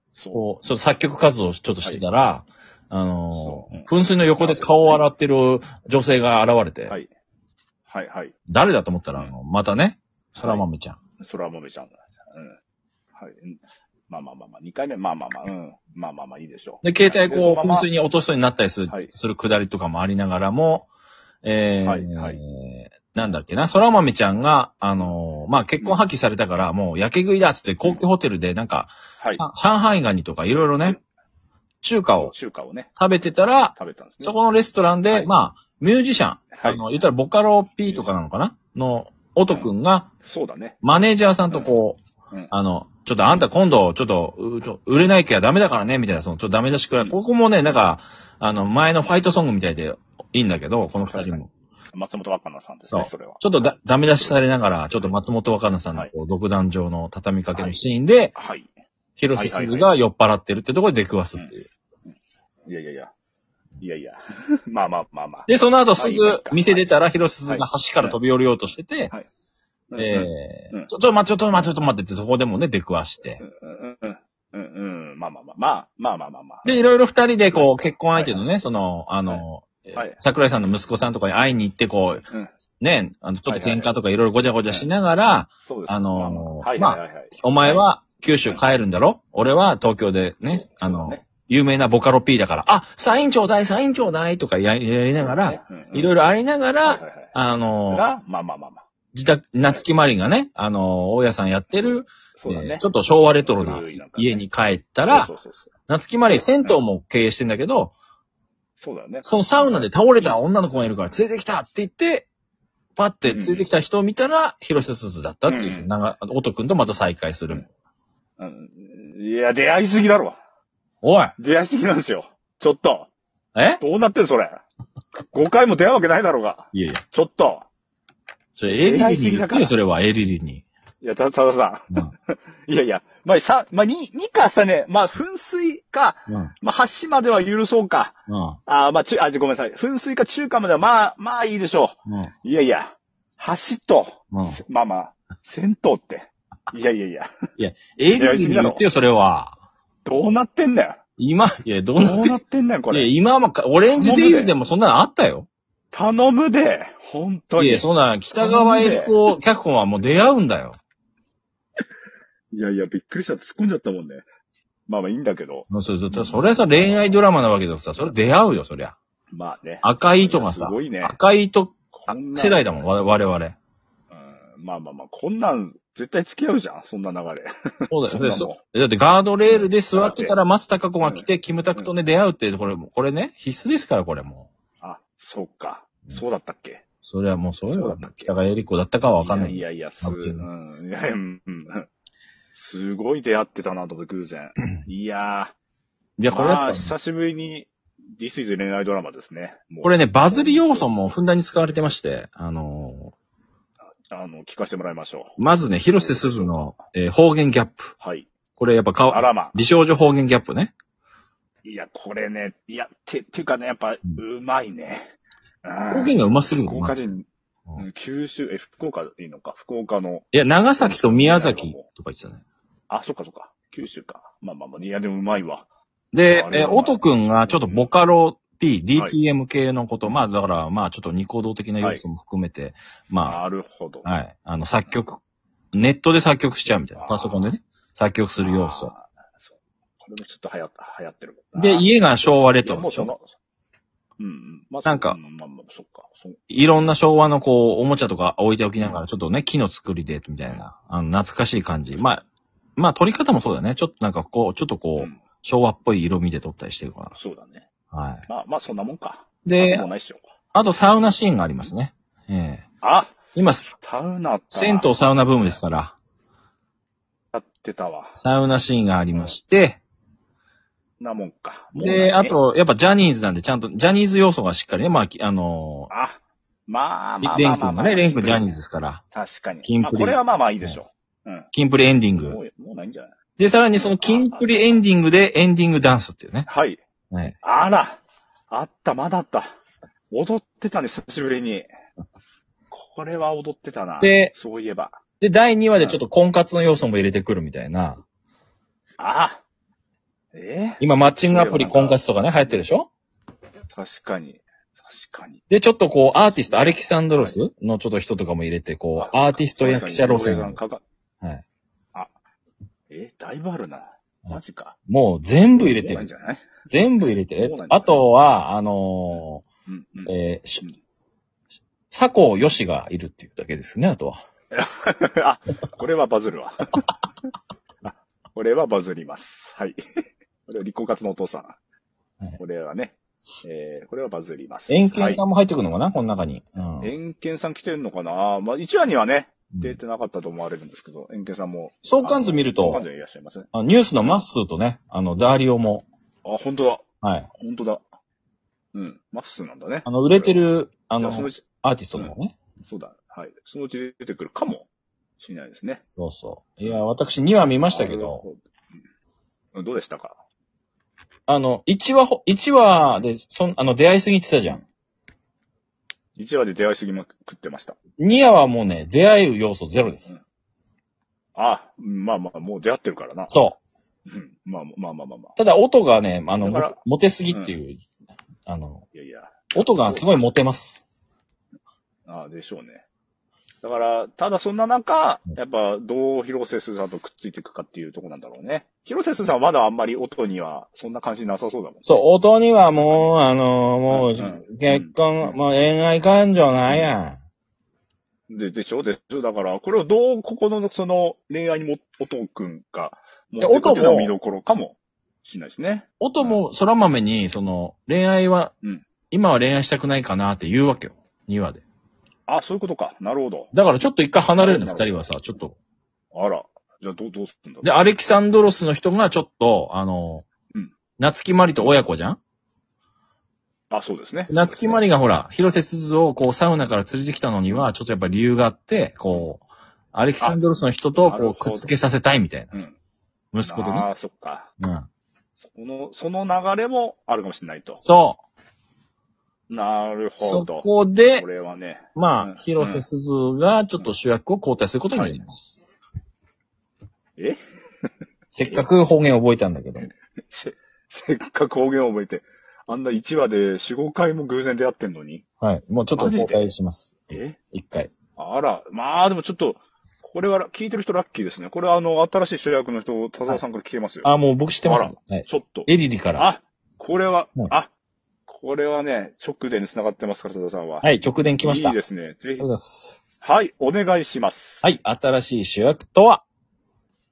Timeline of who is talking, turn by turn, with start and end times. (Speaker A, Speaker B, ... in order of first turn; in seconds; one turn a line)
Speaker A: 0.1-0.4
Speaker B: 0.3-7.0
Speaker A: 3.3-5.0
Speaker A: 7.9-8.3
Speaker B: 8.5-11.0
Speaker A: 10.3-10.7
Speaker A: 11.2-12.6
Speaker A: 13.2-17.9
Speaker B: 16.8-20.9
Speaker B: 21.4-31.0
Speaker A: 21.8-22.4
Speaker A: 29.2-29.4
Speaker B: 31.8-32.3
Speaker A: 32.2-32.9
Speaker B: 33.0-40.1
Speaker A: 33.7-34.4
Speaker A: 36.5-36.8
Speaker A: 40.2-40.8
Speaker B: 40.8-42.0
Speaker B: 42.5-51.5
Speaker A: 51.0-51.4
Speaker A: 51.9-55.1
Speaker B: 52.8-58.3
Speaker A: 57.5-57.8
Speaker A: 58.3-58.7
Speaker B: 59.2-61.7
Speaker A: 59.3-59.9
Speaker A: 62.7-63.1
Speaker A: 63.8-66.8
Speaker B: 65.5-69.1
Speaker A: 67.5-68.2
Speaker A: 69.9-70.9
Speaker B: 70.0-73.4
Speaker A: 73.4-76.9
Speaker B: 76.6-82.2
Speaker A: 77.5-78.4
Speaker A: 79.3-80.2
Speaker B: 82.8-98.1
Speaker A: 83.5-83.9
Speaker A: 85.6-87.9
Speaker A: 90.4-91.2
Speaker A: 95.2-96.1
Speaker A: 96.8-97.3
Speaker A: 97.9-98.8
Speaker B: 99.1-105.3
Speaker A: 101.7-102.8
Speaker A: 103.5-104.4
Speaker A: 105.0-105.7
Speaker B: 105.9-107.9
Speaker A: 106.3-106.8
Speaker A: 108.8-110.4
Speaker B: 109.2-112.3
Speaker B: 113.0-117.7
Speaker A: 113.2-113.7
Speaker A: 115.5-115.9
Speaker A: 118.4-120.4
Speaker B: 121.0-121.3
Speaker A: 121.4-123.1
Speaker B: 123.5-123.8
Speaker A: 123.8-124.6
Speaker A: 125.3-127.7
Speaker B: 126.7-127.0
Speaker B: 128.5-130.7
Speaker A: 128.7-129.7
Speaker A: 131.0-147.3
Speaker B: 136.3-136.5
Speaker B: 138.3-138.6
Speaker B: 144.3-144.6
Speaker B: 147.6-149.6
Speaker A: 148.1-148.8
Speaker A: 150.0-151.0
Speaker B: 151.2-152.4
Speaker A: 152.0-153.1
Speaker B: 152.9-155.5
Speaker A: 153.9-154.5
Speaker A: 155.9-159.3
Speaker B: 157.6-160.8
Speaker A: 162.5-164.2
Speaker A: 164.9-167.2
Speaker B: 165.7-168.9
Speaker A: 169.3-171.2
Speaker B: 169.8-173.6
Speaker A: 171.9-172.9
Speaker A: 174.1-177.5
Speaker B: 177.9-184.5
Speaker A: 178.1-178.6
Speaker A: 179.5-180.4
Speaker A: 181.0-181.9
Speaker A: 184.8-186.8
Speaker B: 187.0-190.4
Speaker A: 187.7-188.3
Speaker A: 189.2-191.9
Speaker A: 192.5-195.5
Speaker B: 196.2-196.9
Speaker A: 196.3-201.1
Speaker B: 199.8-203.1
Speaker A: 204.1-206.7
Speaker B: 205.4-207.9
Speaker A: 208.0-208.3
Speaker B: 208.6-210.7
Speaker A: 209.1-209.6
Speaker A: 211.6-215.1
Speaker A: 215.6-220.3
Speaker B: 215.9-217.0
Speaker B: 220.3-222.4
Speaker A: 220.8-221.9
Speaker A: 222.9-225.7
Speaker B: 226.1-233.4
Speaker A: 226.3-227.9
Speaker A: 233.2-234.1
Speaker B: 234.0-235.2
Speaker B: 235.7-238.9
Speaker A: 236.9-237.5
Speaker A: 238.4-243.3
Speaker B: 241.6-243.1
Speaker A: 244.2-246.9
Speaker B: 244.8-245.2
Speaker B: 246.5-252.2
Speaker B: 252.8-257.1
Speaker A: 257.1-257.6
Speaker B: 257.9-258.2
Speaker A: 258.2-260.2
Speaker B: 259.4-259.9
Speaker B: 260.5-262.6
Speaker A: 262.8-263.2
Speaker B: 263.3-263.7
Speaker A: 263.7-265.6
Speaker B: 264.5-265.9
Speaker A: 267.3-268.2
Speaker B: 268.2-269.8
Speaker A: 271.0-272.4
Speaker B: 271.7-275.9
Speaker A: 275.9-278.6
Speaker B: 277.2-279.0
Speaker A: 279.1-281.5
Speaker B: 279.6-280.8
Speaker B: 281.5-282.4
Speaker A: 282.2-283.1
Speaker B: 283.4-286.5
Speaker A: 283.7-284.8
Speaker A: 286.4-286.8
Speaker B: 287.1-287.4
Speaker A: 287.4-289.5
Speaker A: 290.1-291.7
Speaker A: 292.7-295.0
Speaker B: 294.0-294.3
Speaker B: 295.2-298.0
Speaker A: 295.8-296.0
Speaker A: 299.0-299.4
Speaker A: 300.3-302.6
Speaker B: 300.8-302.9
Speaker A: 303.7-305.4
Speaker B: 305.5-310.6
Speaker A: 306.2-307.4
Speaker A: 308.9-310.8
Speaker A: 312.9-314.8
Speaker B: 314.2-316.1
Speaker A: 315.6-316.5
Speaker B: 316.6-319.4
Speaker A: 317.4-318.1
Speaker A: 319.7-320.8
Speaker B: 320.1-320.6
Speaker B: 321.9-324.2
Speaker A: 324.5-326.9
Speaker A: 327.8-329.8
Speaker A: 330.5-331.6
Speaker A: 332.4-335.2
Speaker B: 334.7-336.9
Speaker A: 336.8-343.5
Speaker B: 339.5-339.8
Speaker B: 341.8-342.8
Speaker B: 343.5-345.9
Speaker A: 346.2-346.8
Speaker B: 347.0-347.3
Speaker A: 347.4-347.8
Speaker A: 348.7-350.5
Speaker B: 349.9-352.3
Speaker A: 351.0-351.4
Speaker A: 352.6-354.7
Speaker A: 355.2-355.8
Speaker B: 355.9-358.2
Speaker A: 357.7-358.4
Speaker A: 359.5-360.2
Speaker B: 361.3-364.6
Speaker A: 366.1-367.8
Speaker B: 368.0-370.2
Speaker A: 371.3-373.3
Speaker B: 373.3-373.6
Speaker A: 374.1-375.4
Speaker B: 375.4-377.8
Speaker A: 376.4-376.8
Speaker A: 377.3-377.6
Speaker B: 378.4-378.8
Speaker A: 378.9-380.3
Speaker B: 379.5-380.8
Speaker A: 382.1-382.8
Speaker A: 383.6-392.0
Speaker B: 391.8-397.2
Speaker A: 393.9-395.4
Speaker A: 396.7-396.9
Speaker A: 398.3-406.4
Speaker B: 403.4-404.1
Speaker B: 406.0-408.5
Speaker B: 409.1-411.6
Speaker A: 412.3-413.5
Speaker B: 413.5-415.6
Speaker A: 414.4-414.9
Speaker A: 416.1-417.7
Speaker B: 417.6-420.3
Speaker B: 421.0-422.2
Speaker A: 423.7-424.8
Speaker B: 424.3-429.4
Speaker B: 429.9-432.5
Speaker A: 431.0-431.7
Speaker B: 433.3-433.9
Speaker A: 433.4-434.5
Speaker B: 434.6-434.9
Speaker A: 435.5-437.8
Speaker B: 437.7-438.2
Speaker A: 439.5-442.8
Speaker B: 440.2-441.2
Speaker B: 441.9-445.6
Speaker A: 444.9-445.2
Speaker B: 448.3-449.9
Speaker A: 449.8-455.2
Speaker B: 455.4-457.9
Speaker A: 455.9-456.5
Speaker A: 457.1-457.4
Speaker A: 458.1-464.1
Speaker B: 464.0-466.3
Speaker A: 464.6-467.7
Speaker A: 468.3-472.5
Speaker B: 470.8-471.8
Speaker B: 472.4-473.0
Speaker A: 473.2-474.7
Speaker B: 474.6-476.2